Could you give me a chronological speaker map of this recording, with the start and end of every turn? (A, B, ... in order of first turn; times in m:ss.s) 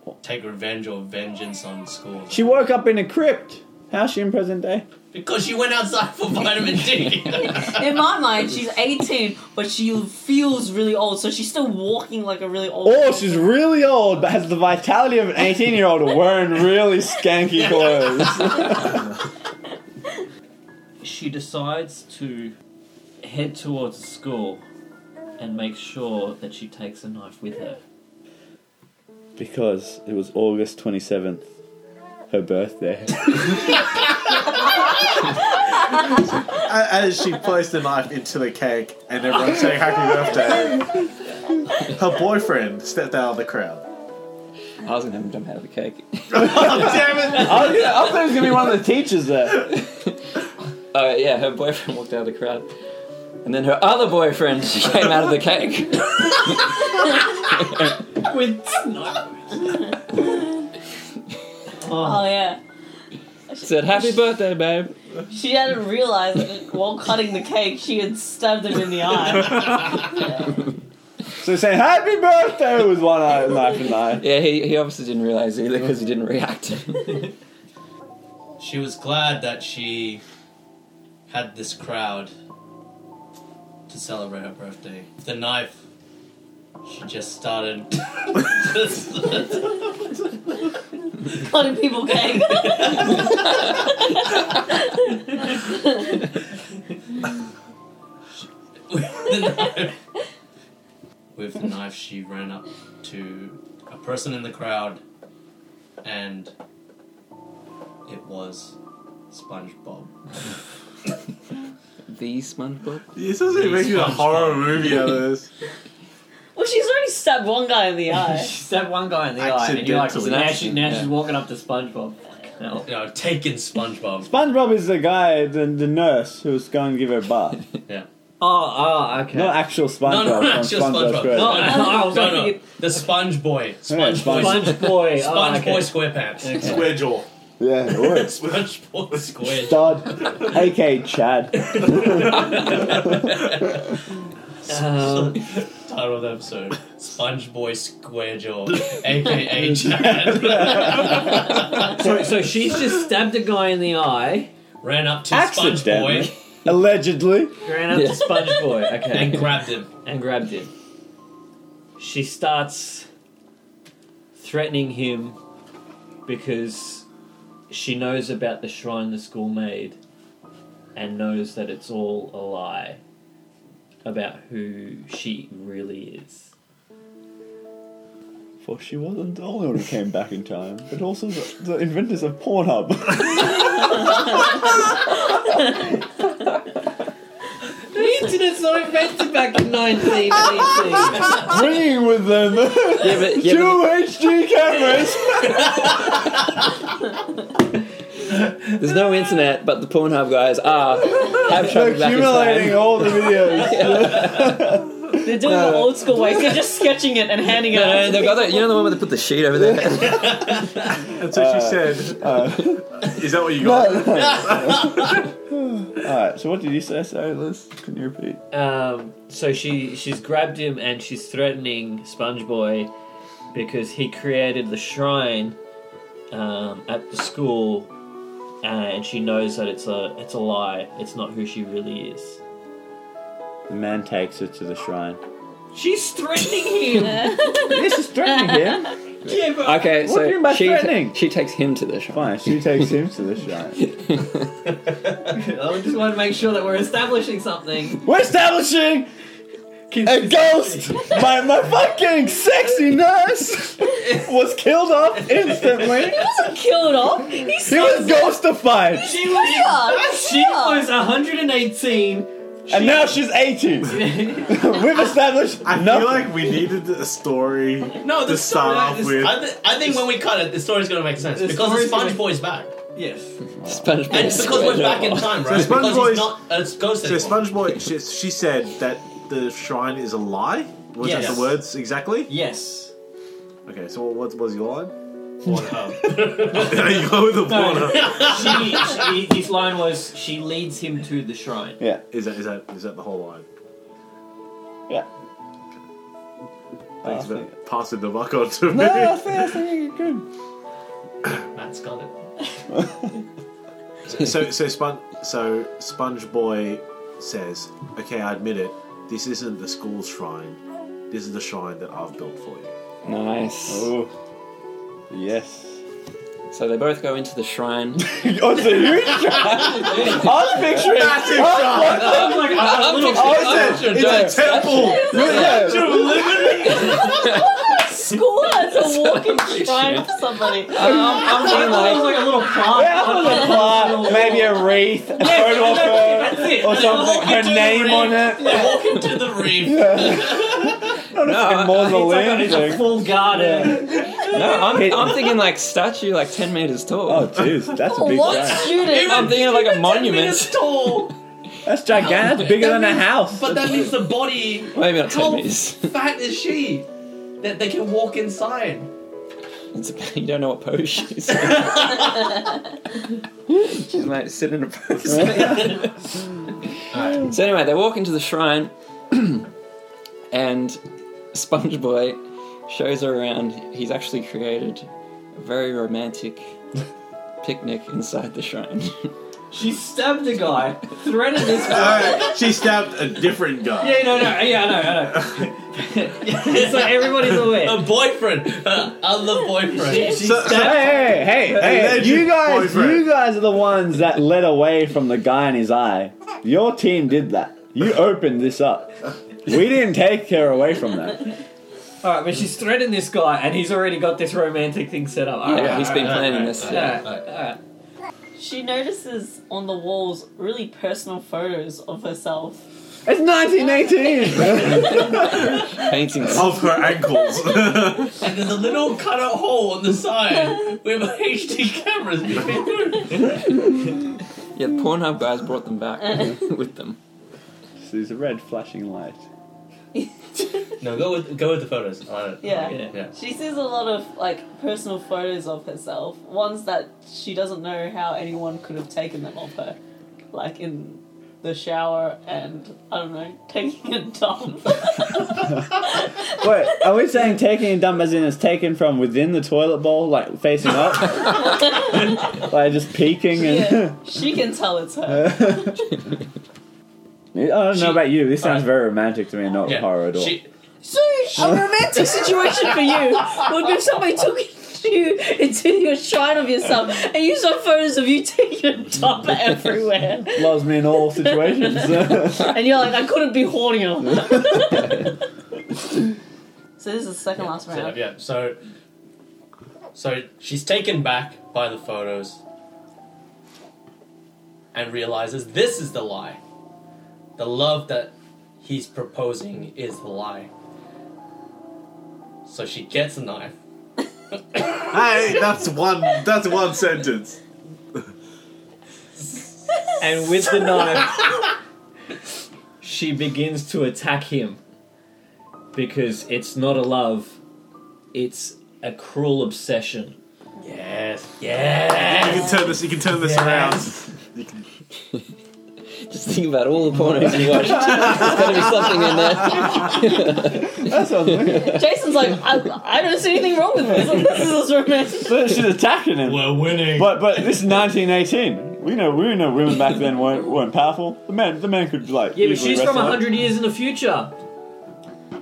0:00.2-0:02.4 A
0:02.3-0:04.9 B
0:05.1-0:07.9 A
0:07.5-0:13.4 C
0:12.8-0:19.1 B
0:17.8-0:18.1 A
0:21.0-0:22.5 D
0:23.2-0:24.6 D
0:25.4-0:27.8 D
0:29.4-0:31.5 B
0:32.3-0:33.7 B
0:36.0-0:40.9 E
0:41.8-0:43.8 E
0:44.8-0:47.3 F
0:46.3-0:47.9 E
0:47.3-0:49.8 B
0:49.7-0:50.1 F
0:50.9-0:52.7 F
0:53.4-0:58.0 F
0:58.1-0:59.8 D
1:00.1-1:00.4 C
1:01.8-1:02.3 D
1:01.8-1:02.6 C
1:03.5-1:04.2 C
1:03.6-1:04.9 F
1:05.3-1:10.4 C
1:11.4-1:14.2 B
1:14.2-1:17.3 F
1:18.6-1:20.2 A
1:21.3-1:22.3 A
1:23.9-1:25.8 A
1:26.8-1:30.2 A
1:31.3-1:36.3 C
1:32.3-1:33.4 A
1:38.9-1:40.0 A
1:41.3-1:45.0 A
1:46.0-1:46.5 A
1:48.0-1:48.8 A
1:49.3-1:50.1 A
1:52.1-1:53.1 F
1:53.1-1:55.5 E
1:53.5-1:55.1 A
1:56.6-1:58.5 C
1:58.3-2:02.9 D
1:59.4-2:00.8 E
2:00.2-2:01.1 F
2:02.8-2:04.3 A
2:04.2-2:07.6 B
2:08.4-2:09.6 D
2:09.3-2:11.8 B
2:10.0-2:16.9 A
2:11.3-2:12.6 D
2:11.9-2:12.5 C
2:13.9-2:14.8 B
2:14.1-2:17.1 D
2:16.6-2:17.2 E
2:17.6-2:18.4 B
2:17.9-2:20.4 A
2:19.4-2:23.5 B
2:21.6-2:23.9 A
2:24.6-2:32.0 A
2:24.6-2:25.5 D
2:30.0-2:31.1 B
2:31.4-2:34.5 D
2:34.8-2:36.3 A
2:35.3-2:37.6 B
2:37.6-2:40.7 D
2:37.9-2:38.8 F
2:39.1-2:39.9 A
2:42.0-2:43.1 D
2:44.3-2:45.4 D
2:46.2-2:47.0 D
2:47.7-2:50.0 D
2:50.9-2:53.0 D
2:54.0-2:56.5 D
2:58.6-3:04.5 B
3:07.9-3:11.4 D
3:11.2-3:16.0 B
3:13.0-3:13.9 F
3:18.8-3:24.6 F
3:21.4-3:25.7 B
3:25.2-3:28.9 C
3:25.5-3:26.0 F
3:27.7-3:30.7 F
3:30.1-3:30.9 A
3:31.1-3:35.2 E
3:31.2-3:32.9 B
3:33.6-3:38.4 B
3:34.4-3:35.2 A
3:38.5-3:42.9 D
3:43.5-3:45.6 D
3:46.3-3:47.9 D
3:48.6-3:52.4 D
3:53.7-3:55.2 B
3:55.7-3:57.6 D
3:57.4-3:57.8 C
3:57.6-3:58.9 B
3:59.2-4:00.0 D
3:59.3-4:02.9 F
4:00.0-4:01.2 B
4:02.1-4:03.9 B
4:03.8-4:04.5 F
4:05.3-4:08.0 D
4:08.0-4:09.1 B
4:09.9-4:11.4 D
4:10.0-4:16.2 B
4:16.2-4:18.3 C
4:17.6-4:19.4 B
4:19.0-4:23.2 D
4:19.2-4:20.9 C
4:22.7-4:26.5 B
4:23.8-4:24.6 D
4:25.6-4:30.0 E
4:28.0-4:32.7 A
4:28.5-4:29.3 D
4:31.3-4:32.3 D
4:32.9-4:33.5 D
4:33.6-4:35.8 F
4:33.6-4:34.3 B
4:34.1-4:37.5 A
4:35.4-4:36.4 E
4:37.0-4:42.3 E
4:41.0-4:41.6 D
4:41.0-4:41.5 A
4:42.3-4:42.9 D
4:43.6-4:44.9 E
4:45.4-4:47.1 A
4:46.5-4:48.6 E
4:47.3-4:51.8 D
4:47.8-4:49.1 A
4:52.1-4:53.4 E
4:57.0-4:57.5 B
4:57.0-4:59.2 E
4:58.6-5:00.2 B
5:01.5-5:02.1 A
5:04.1-5:10.6 E
5:11.1-5:12.7 E
5:13.0-5:13.9 F
5:13.7-5:14.1 B
5:15.1-5:15.8 B
5:16.5-5:18.2 F
5:18.0-5:22.4 B
5:19.7-5:20.4 D
5:20.0-5:26.4 E
5:21.8-5:23.8 D
5:21.8-5:25.6 F
5:23.1-5:26.3 B
5:25.1-5:27.3 A
5:26.7-5:32.0 C
5:27.1-5:27.5 F
5:28.7-5:30.1 F
5:30.7-5:32.4 F
5:30.8-5:39.0 D
5:32.5-5:38.7 B
5:36.6-5:40.9 A
5:39.6-5:44.0 B
5:41.1-5:42.2 F
5:41.7-5:44.8 D
5:44.2-5:47.5 F
5:44.6-5:45.3 B
5:47.0-5:48.8 B
5:47.8-5:49.4 C
5:48.2-5:51.1 A
5:48.4-5:51.1 F
5:51.6-5:53.7 B
5:52.0-5:56.9 A
5:54.7-5:56.0 F
5:57.4-5:58.9 A
5:59.7-6:02.3 F
6:01.4-6:02.3 A
6:03.5-6:05.9 F
6:05.2-6:05.5 B
6:05.2-6:05.8 A
6:06.9-6:07.3 A
6:07.2-6:09.4 F
6:10.3-6:10.8 F
6:11.3-6:16.6 F
6:17.4-6:19.1 F
6:19.5-6:22.4 D
6:21.6-6:24.4 E
6:23.8-6:27.8 D
6:26.2-6:30.3 A
6:29.6-6:31.4 D
6:29.9-6:33.0 E
6:30.4-6:41.3 B
6:42.0-6:47.6 D
6:45.4-6:47.0 F
6:45.6-6:47.3 A
6:48.4-6:52.6 C
6:53.0-6:55.6 B
6:53.8-6:55.1 C
6:55.2-6:56.8 F
6:56.2-6:58.2 E
6:58.2-7:03.4 A
7:04.5-7:07.0 F
7:06.0-7:06.4 C
7:07.8-7:09.2 B
7:10.8-7:13.1 A
7:12.4-7:19.8 C
7:12.6-7:13.0 D
7:20.3-7:26.4 C
7:26.2-7:34.0 B
7:31.5-7:32.0 C
7:33.3-7:35.9 C
7:35.1-7:35.7 B
7:37.3-7:40.4 B
7:37.7-7:38.7 A
7:39.6-7:40.5 A
7:40.8-7:55.1 C
7:50.3-7:52.6 B
7:56.8-7:58.0 C
7:57.5-7:58.6 A
7:59.9-8:02.4 A
8:04.7-8:06.4 A
8:07.4-8:10.5 A
8:12.4-8:13.5 A
8:14.8-8:17.4 E
8:20.0-8:21.2 D
8:22.8-8:24.6 D
8:25.7-8:27.4 D
8:28.1-8:30.2 D
8:30.6-8:33.8 A
8:31.9-8:32.4 D
8:32.0-8:34.6 E
8:33.3-8:33.6 D
8:36.0-8:40.9 F
8:37.3-8:38.7 B
8:37.6-8:39.0 E
8:40.4-8:41.8 B
8:41.5-8:41.8 F
8:41.5-8:45.3 C
8:45.2-8:53.3 B
8:46.2-8:47.3 A
8:52.3-8:54.4 D